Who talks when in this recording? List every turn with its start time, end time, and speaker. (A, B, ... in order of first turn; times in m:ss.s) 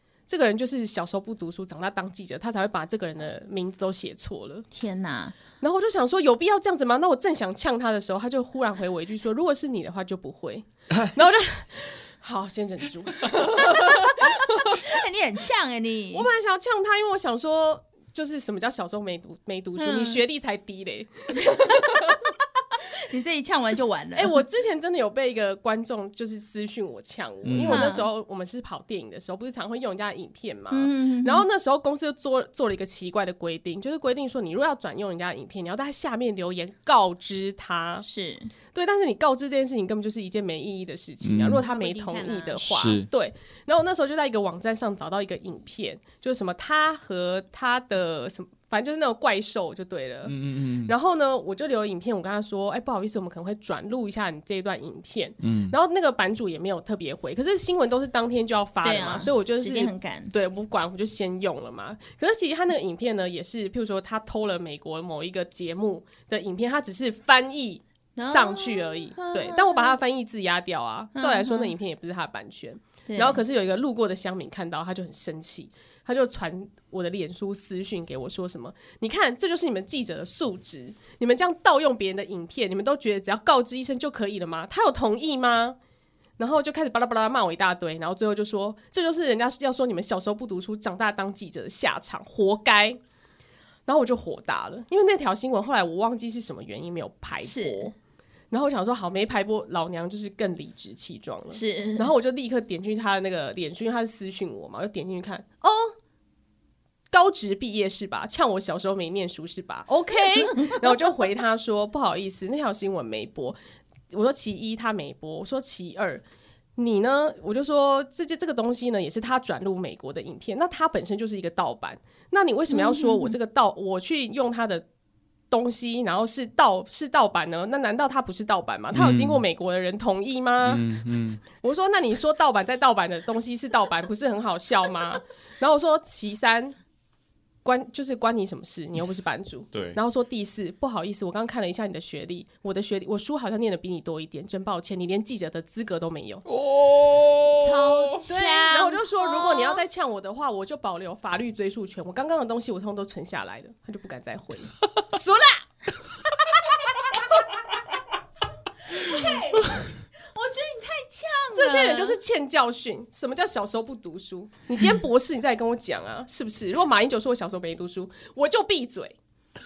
0:00.3-0:04.7 A
0:04.7-0:05.4 B
0:05.6-0:14.8 A
0:13.4-0:16.3 B
0:16.1-0:22.2 A
0:19.8-0:20.2 B
0:21.5-0:22.1 B
0:23.0-0:24.4 B
0:24.2-0:38.1 A
0:27.4-0:27.9 C
0:27.7-0:28.1 B
0:30.7-0:31.4 B
0:38.0-0:38.5 B
0:38.7-1:25.8 A
0:41.2-0:41.6 C
0:41.6-0:42.8 B
0:42.7-0:43.1 C
0:50.3-0:50.9 C
0:55.4-0:55.8 C
0:58.8-1:00.3 B
1:08.2-1:10.0 B
1:11.2-1:11.7 B
1:13.1-1:13.4 B
1:26.4-1:33.0 A
1:33.9-1:38.0 A
1:37.4-1:37.9 B
1:38.5-1:45.9 A
1:41.5-1:42.1 B
1:47.1-1:53.6 A
1:54.1-1:56.2 A
1:56.8-2:04.9 A
2:02.7-2:03.4 B
2:05.5-2:10.8 A
2:08.9-2:09.4 C
2:10.6-2:11.4 C
2:11.5-2:16.8 A
2:17.6-2:26.4 A
2:19.7-2:20.0 C
2:26.5-2:28.2 C
2:27.5-2:29.8 B
2:28.3-2:35.2 A
2:35.1-2:35.5 B
2:38.9-2:42.2 B
2:41.5-2:49.2 A